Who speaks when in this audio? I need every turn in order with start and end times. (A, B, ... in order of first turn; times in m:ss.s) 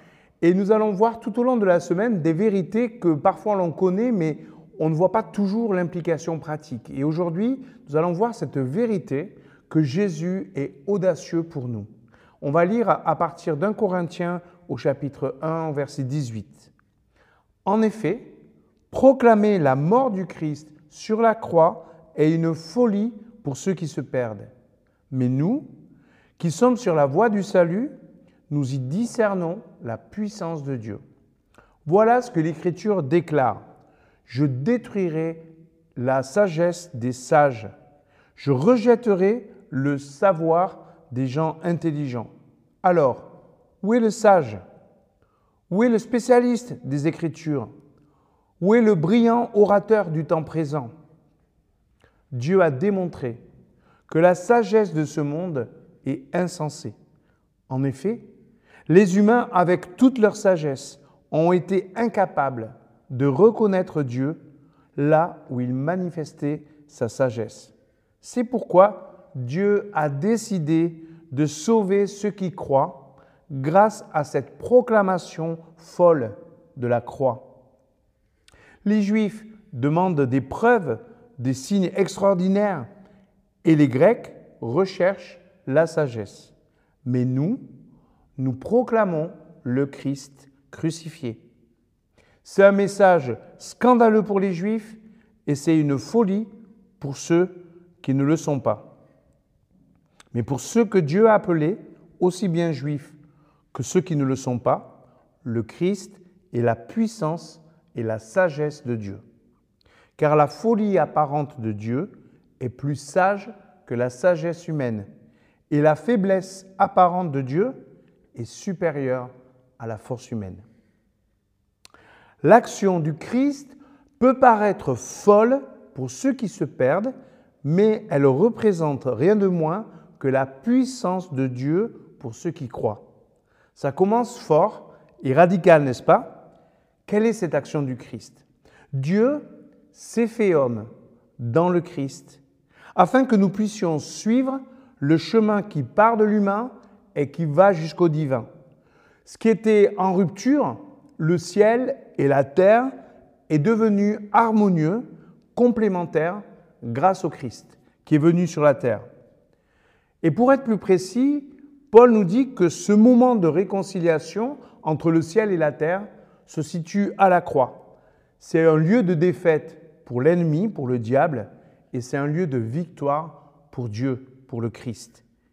0:00.4-0:11.9 A
0:12.4-0:16.7 A
0:17.6-0:18.4 A
0:18.9-0:24.5 A
0:25.1-0:25.7 A
0:26.4-0:27.9 A
0:28.5-0:31.0 A
0:31.8-0:33.6 A
0:34.3-0:37.7 A
0:38.4-0:42.3 A
0:42.8-0:43.3 A
0:43.8-0:44.6 A
0:45.7-0:47.7 A
0:48.6-0:50.9 A
0:52.3-0:53.4 A
0:54.1-0:57.0 A
0:57.7-0:58.2 A
0:58.9-1:04.4 A
1:05.0-1:17.5 A
1:18.8-1:22.9 A
1:23.6-1:26.5 A
1:27.0-1:27.6 A
1:28.4-1:31.4 A
1:32.4-1:38.9 A
1:40.3-1:43.2 A
1:43.7-1:49.2 A
1:50.2-1:55.1 A
1:55.7-1:57.8 A
1:58.3-2:00.6 A
2:02.4-2:07.1 A
2:07.6-2:13.0 A
2:13.8-2:16.4 A
2:17.1-2:18.4 A
2:18.9-2:20.9 A
2:21.4-2:22.4 A
2:23.0-2:28.5 A
2:29.2-2:32.9 A
2:33.5-2:39.0 A
2:40.2-2:47.8 A
2:48.4-2:55.2 A